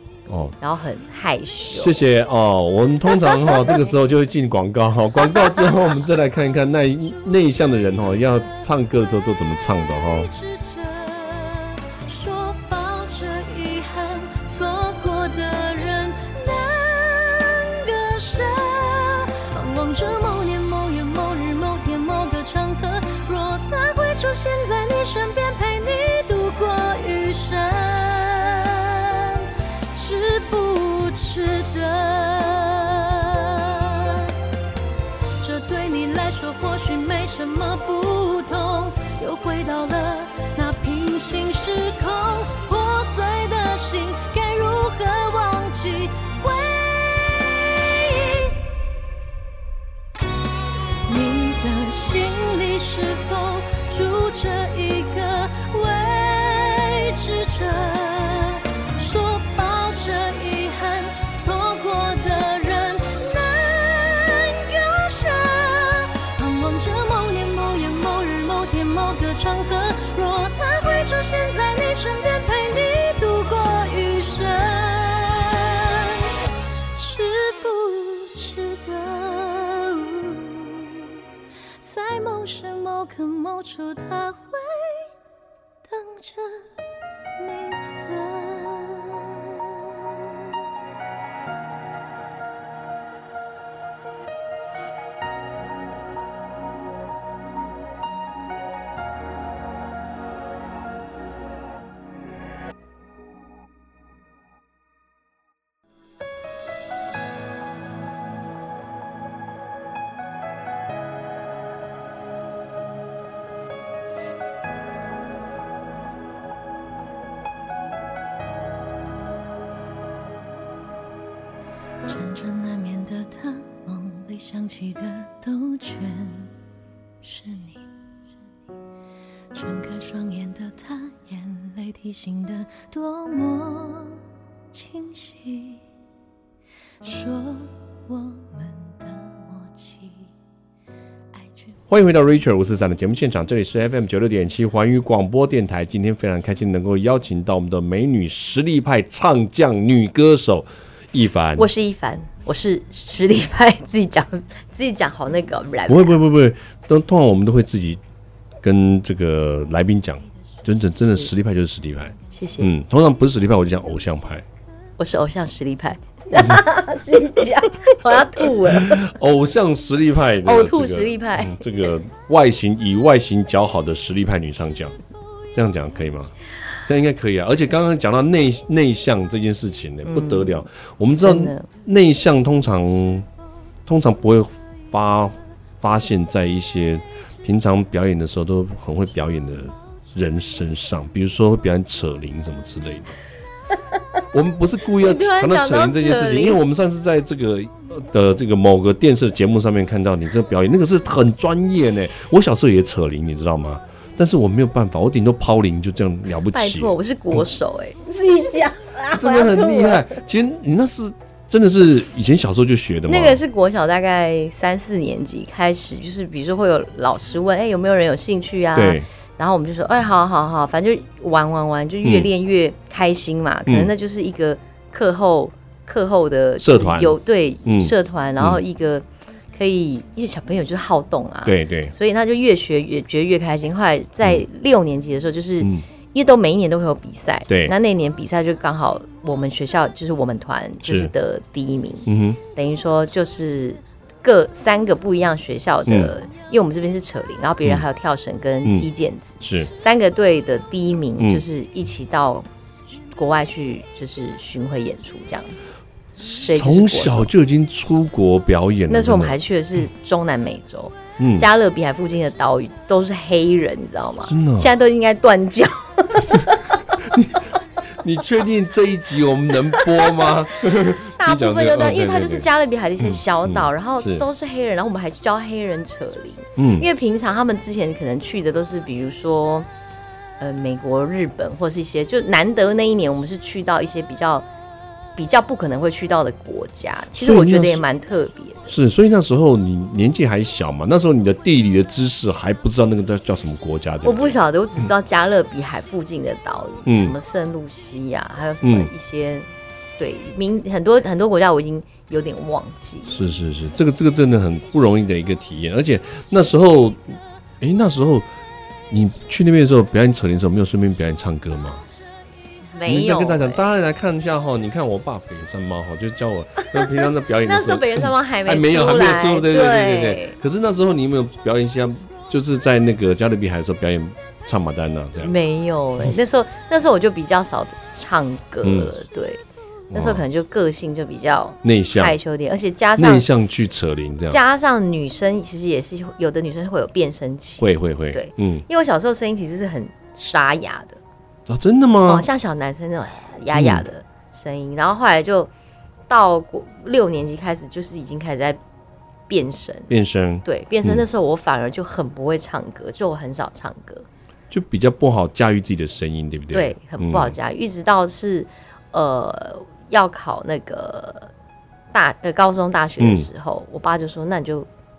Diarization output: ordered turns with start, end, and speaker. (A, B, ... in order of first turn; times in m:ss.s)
0:00.3-0:00.6 A
0:00.6-0:02.0 B
0:01.7-0:10.3 A
0:10.0-0:34.3 C
0:35.4-0:48.5 C
0:51.1-1:16.4 C
1:16.9-1:21.1 C
1:21.8-1:25.1 C
1:25.9-1:26.7 C
1:27.4-1:30.2 C
2:02.1-2:06.5 C
2:07.2-2:07.8 C
2:09.5-2:14.2 C
2:14.7-2:15.8 C
2:17.0-2:20.1 C
2:21.9-2:31.7 A
2:31.6-2:36.2 B
2:35.9-2:38.0 A
2:38.6-2:44.4 A
2:42.3-2:42.7 B
2:45.0-2:49.0 B
2:48.7-2:55.0 A
2:50.4-2:51.9 B
2:55.5-2:56.3 A
2:56.8-3:03.3 A
3:00.1-3:00.6 B
3:01.2-3:01.7 B
3:03.9-3:13.2 A
3:14.3-3:27.0 A
3:15.0-3:16.6 B
3:26.5-3:30.2 B
3:29.1-3:33.4 A
3:33.1-4:12.5 B
3:38.8-3:39.1 A
3:42.0-3:42.3 A
3:46.6-3:48.6 A
3:51.4-3:51.9 A
3:57.5-3:57.7 A
4:00.8-4:01.1 A
4:02.1-4:02.4 A
4:09.4-4:09.7 A
4:11.2-4:11.4 A
4:13.1-4:15.6 B
4:16.2-4:19.4 A
4:16.4-4:17.3 B
4:18.9-4:26.8 B
4:21.2-4:21.5 A
4:24.3-4:24.7 A
4:27.0-4:27.5 A
4:28.0-4:32.5 A
4:29.8-4:39.7 B
4:33.0-4:34.3 A
4:36.6-4:36.9 A
4:40.4-4:44.5 B
4:45.2-4:48.8 B
4:47.1-4:47.8 A
4:48.7-4:54.4 A
4:54.0-4:59.5 B
4:56.9-4:57.2 A
4:58.6-4:58.9 A
5:00.0-5:03.2 B
5:03.1-5:08.3 A
5:08.9-5:11.8 A
5:12.7-5:13.6 B
5:12.9-5:25.4 A
5:16.6-5:20.4 B
5:25.2-5:29.4 B
5:28.6-5:28.9 A
5:29.9-5:30.2 A
5:29.9-5:33.3 B
5:31.6-5:32.2 A
5:33.0-5:34.4 A
5:34.3-5:41.0 B
5:37.6-5:38.6 A
5:41.5-5:42.3 A
5:42.1-5:45.5 B
5:43.5-5:43.8 A
5:46.1-5:48.6 B
5:49.3-5:49.9 B
5:49.9-5:51.0 A
5:50.4-5:54.1 B
5:54.5-5:57.4 A
5:56.5-6:01.3 B
6:01.9-6:04.7 B
6:03.0-6:03.3 A